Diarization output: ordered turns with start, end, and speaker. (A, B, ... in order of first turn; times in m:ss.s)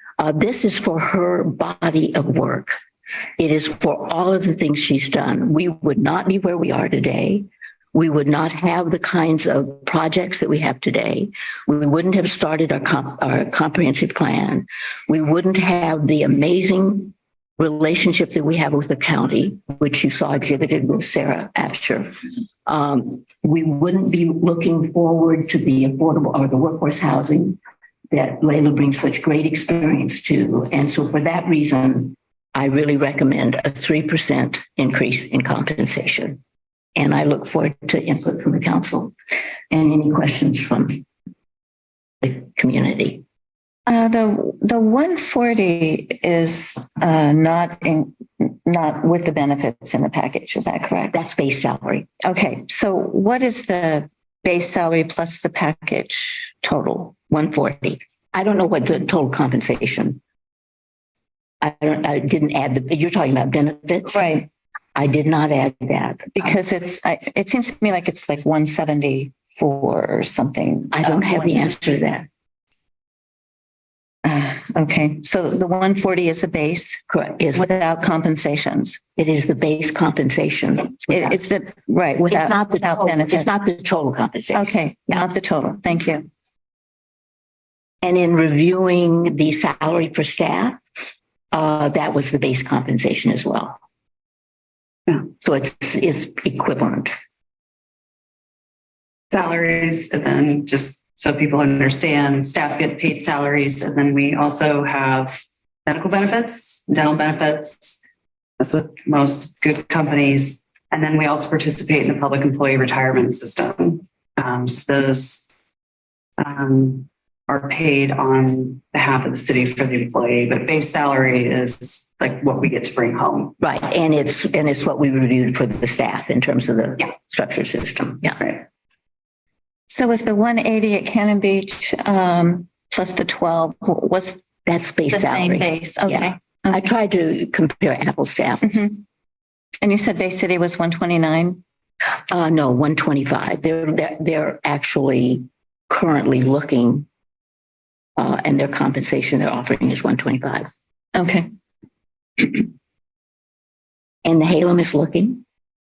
0:00.2-0:02.8 A
0:03.4-0:27.6 A
0:28.1-0:36.4 A
0:37.0-0:39.1 A
0:39.7-0:41.1 A
0:42.2-0:43.2 A
0:43.9-0:51.2 B
0:51.1-0:52.1 A
0:52.2-0:57.1 B
0:57.3-1:00.2 A
1:01.6-1:04.4 A
1:04.1-1:04.5 B
1:04.9-1:06.6 A
1:06.4-1:11.8 B
1:10.9-1:12.3 A
1:14.2-1:17.0 B
1:17.1-1:17.7 A
1:17.5-1:19.0 B
1:19.2-1:21.4 A
1:21.1-1:23.5 B
1:22.2-1:25.2 A
1:24.5-1:26.3 B
1:28.0-1:30.8 A
1:31.5-1:33.8 A
1:35.4-1:37.1 A
1:39.3-1:48.0 C
1:48.6-1:55.5 C
1:56.4-2:03.6 C
2:03.6-2:08.6 A
2:09.9-2:14.4 B
2:14.6-2:18.9 A
2:15.1-2:16.8 B
2:18.6-2:19.0 B
2:19.8-2:21.6 B
2:22.3-2:27.1 A
2:28.2-2:30.7 A
2:31.1-2:31.4 B
2:34.2-2:35.4 A